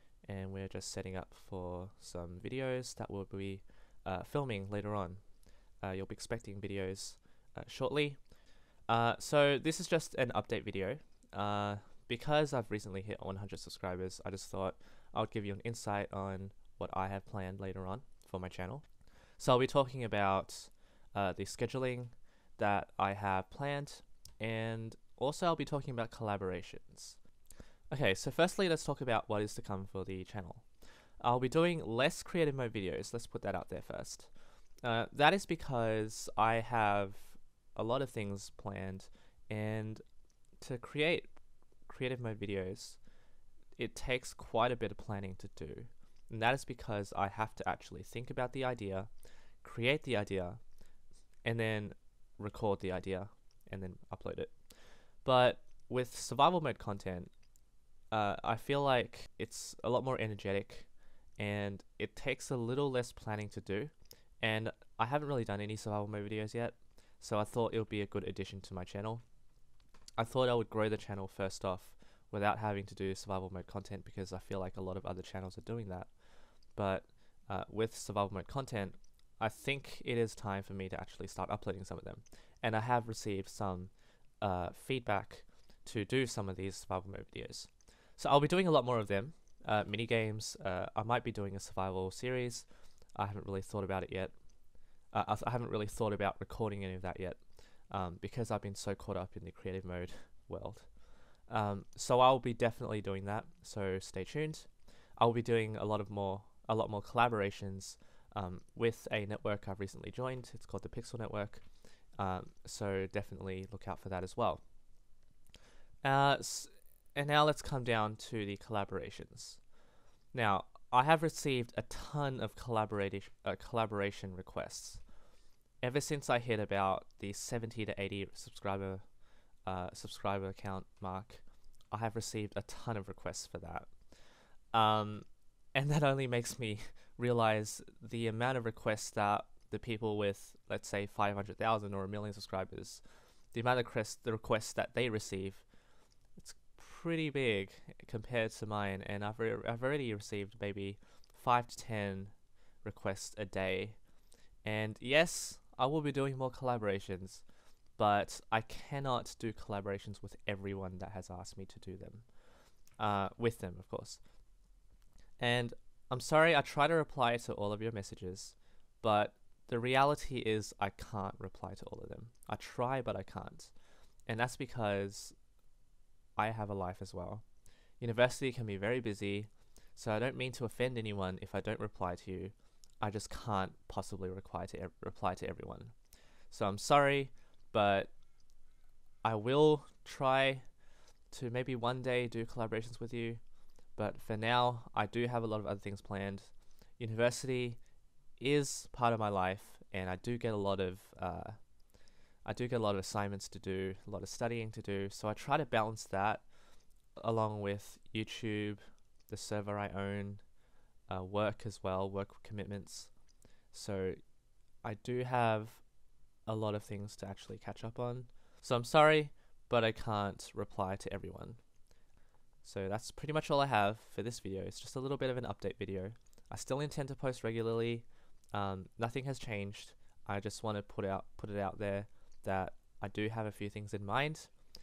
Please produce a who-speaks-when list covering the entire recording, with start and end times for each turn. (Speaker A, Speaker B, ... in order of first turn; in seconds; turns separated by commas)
Speaker A: 0.2-5.2, Speaker A: 5.8-8.3, Speaker A: 8.9-27.2, Speaker A: 27.9-30.7, Speaker A: 31.2-34.3, Speaker A: 34.8-40.0, Speaker A: 40.6-41.4, Speaker A: 41.9-43.0, Speaker A: 43.8-49.1, Speaker A: 49.6-50.6, Speaker A: 51.4-57.3, Speaker A: 58.1-69.2, Speaker A: 70.2-76.1, Speaker A: 76.7-94.3, Speaker A: 95.1-100.9, Speaker A: 101.5-111.7, Speaker A: 112.2-114.6, Speaker A: 116.0-119.6, Speaker A: 120.3-125.0, Speaker A: 125.8-129.1, Speaker A: 129.7-134.1, Speaker A: 134.7-145.7, Speaker A: 146.4-154.0, Speaker A: 154.6-157.4, Speaker A: 158.0-162.3, Speaker A: 163.0-164.2, Speaker A: 165.4-173.7, Speaker A: 174.3-175.3, Speaker A: 176.4-177.4, Speaker A: 178.0-185.9, Speaker A: 186.5-188.1, Speaker A: 189.2-190.7, Speaker A: 191.3-193.4, Speaker A: 194.0-197.8, Speaker A: 198.4-201.6, Speaker A: 202.4-206.4, Speaker A: 207.2-210.4, Speaker A: 211.1-213.1, Speaker A: 213.7-214.2, Speaker A: 214.8-215.8, Speaker A: 216.5-221.6, Speaker A: 222.6-234.5